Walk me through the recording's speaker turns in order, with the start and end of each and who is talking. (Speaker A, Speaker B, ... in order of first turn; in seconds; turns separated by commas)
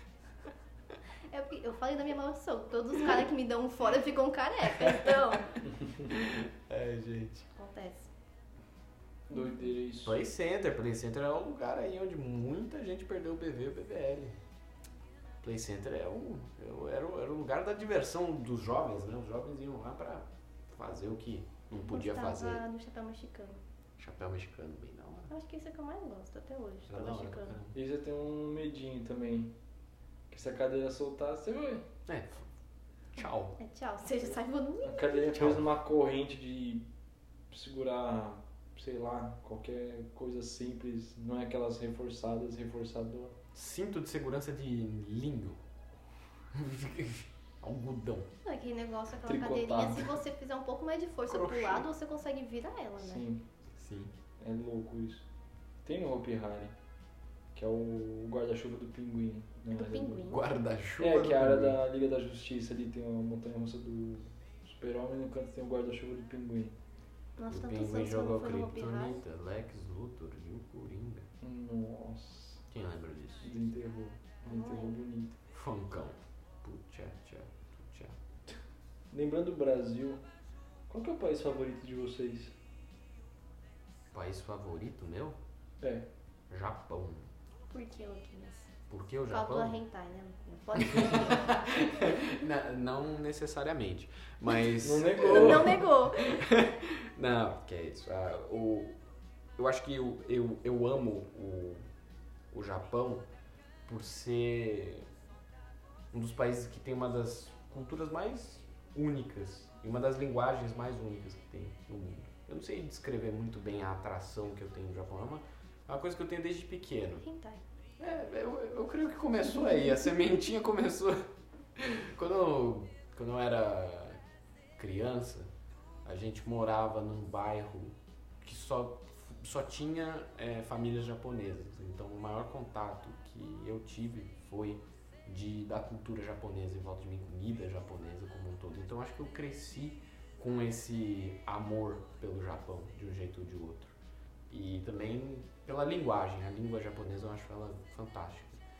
Speaker A: 1.3-5.6, Speaker B: 4.7-5.4, Speaker B: 6.1-7.5, Speaker A: 7.5-8.1, Speaker C: 9.3-10.2, Speaker A: 9.3-9.7, Speaker B: 10.0-14.4, Speaker B: 15.4-22.6, Speaker A: 21.8-23.6, Speaker B: 24.0-25.3, Speaker A: 25.3-27.6, Speaker B: 26.9-27.8, Speaker C: 27.7-29.5, Speaker C: 30.3-31.9, Speaker B: 32.1-32.5, Speaker B: 33.1-33.5, Speaker A: 33.6-35.5, Speaker C: 34.8-36.9, Speaker B: 35.3-35.6, Speaker C: 37.5-43.4, Speaker B: 43.5-45.6, Speaker B: 46.5-48.3, Speaker A: 48.4-53.2, Speaker C: 49.2-50.2, Speaker B: 51.3-51.9, Speaker C: 53.0-53.4, Speaker B: 53.7-54.1, Speaker C: 54.4-55.2, Speaker C: 55.8-56.7, Speaker C: 57.5-60.4, Speaker A: 59.7-60.4, Speaker B: 60.3-61.8, Speaker C: 61.0-66.8, Speaker A: 67.4-69.2, Speaker B: 67.5-71.3, Speaker C: 71.4-72.6, Speaker B: 72.7-73.5, Speaker C: 73.4-75.4, Speaker A: 74.5-75.0, Speaker B: 75.5-78.2, Speaker C: 79.1-80.2, Speaker C: 80.9-82.5, Speaker B: 84.1-85.4, Speaker C: 85.8-86.1, Speaker B: 86.5-87.3, Speaker A: 87.7-88.7, Speaker B: 88.9-89.8, Speaker A: 89.3-91.8, Speaker B: 90.8-99.0, Speaker C: 94.8-95.9, Speaker A: 95.2-96.5, Speaker B: 99.6-101.8, Speaker B: 102.5-103.3, Speaker B: 103.8-105.1, Speaker B: 106.1-117.2, Speaker A: 117.2-117.6, Speaker B: 118.0-121.2, Speaker B: 121.8-124.2, Speaker B: 124.8-125.5, Speaker B: 126.0-143.9, Speaker B: 144.5-148.6